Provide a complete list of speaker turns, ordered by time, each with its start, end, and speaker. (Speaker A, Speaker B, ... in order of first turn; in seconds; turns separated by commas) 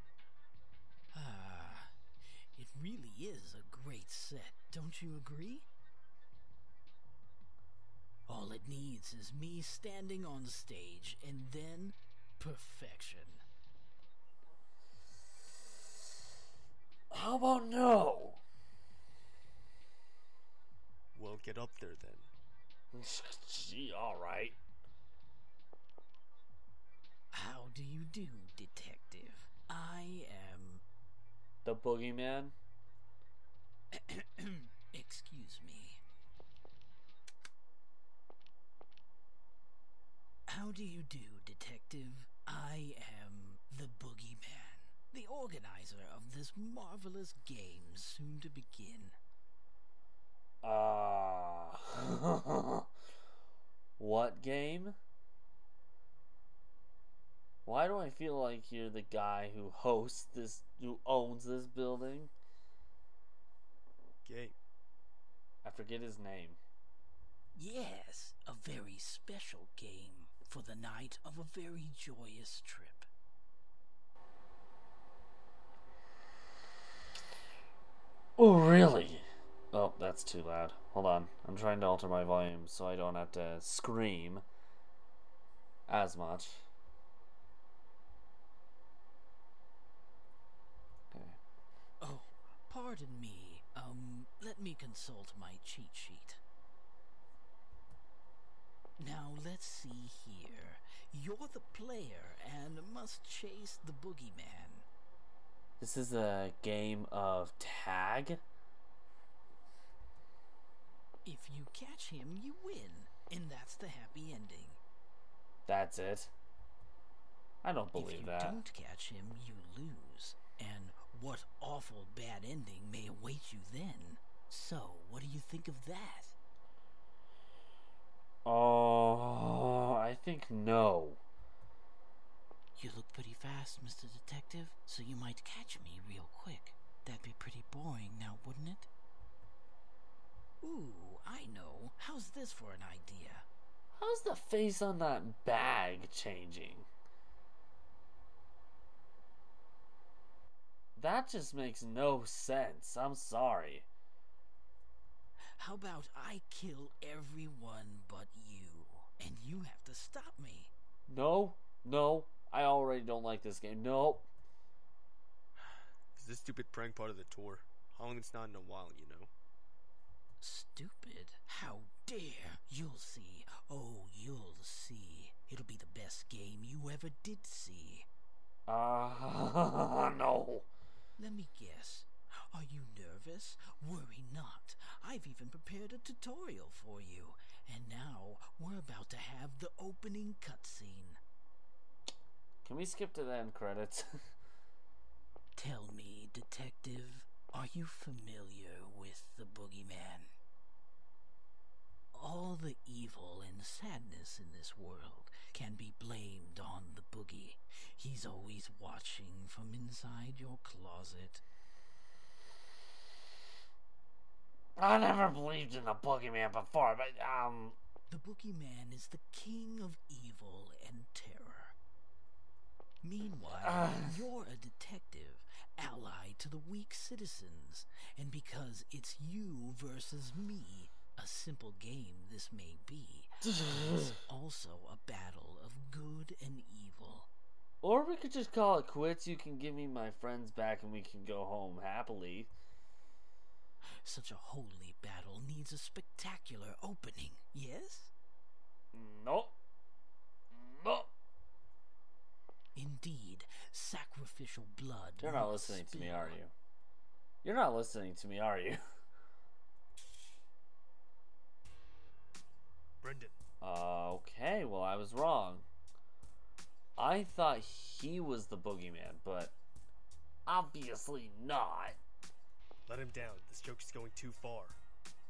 Speaker A: 1.1-5.7, Speaker A: 8.3-13.4, Speaker B: 17.1-18.4, Speaker C: 21.1-22.3, Speaker B: 22.9-24.6, Speaker A: 27.3-30.8, Speaker B: 31.6-32.5, Speaker A: 33.9-36.0, Speaker A: 40.5-49.1, Speaker B: 50.6-52.9, Speaker B: 54.0-55.0, Speaker B: 57.6-62.3, Speaker C: 64.2-64.5, Speaker B: 65.6-66.6, Speaker A: 67.5-73.1, Speaker B: 78.4-84.4, Speaker B: 85.9-86.6, Speaker B: 91.1-91.4, Speaker A: 92.0-96.4, Speaker A: 99.0-104.8, Speaker B: 105.8-108.4, Speaker A: 111.2-114.8, Speaker B: 115.7-116.3, Speaker B: 117.6-118.6, Speaker A: 117.9-126.3, Speaker B: 128.4-131.2, Speaker A: 132.8-138.9, Speaker A: 140.6-143.5, Speaker B: 143.9-146.9, Speaker B: 150.9-153.9, Speaker A: 155.6-160.7, Speaker B: 161.1-164.3, Speaker C: 166.1-169.3, Speaker A: 170.4-178.1, Speaker B: 178.7-180.7, Speaker A: 181.2-191.2, Speaker B: 192.6-194.3, Speaker A: 195.6-200.3, Speaker A: 202.1-211.4, Speaker B: 214.8-217.8, Speaker A: 218.1-221.8, Speaker A: 223.0-237.3, Speaker B: 223.6-224.2, Speaker B: 233.4-234.1, Speaker B: 237.8-242.5, Speaker A: 243.8-248.1, Speaker B: 248.9-249.6, Speaker B: 250.5-251.1, Speaker A: 252.7-256.4, Speaker B: 255.2-256.5, Speaker B: 257.4-258.8, Speaker C: 263.0-263.4, Speaker B: 263.6-265.7, Speaker B: 267.0-269.6, Speaker B: 270.4-272.0, Speaker C: 272.9-274.8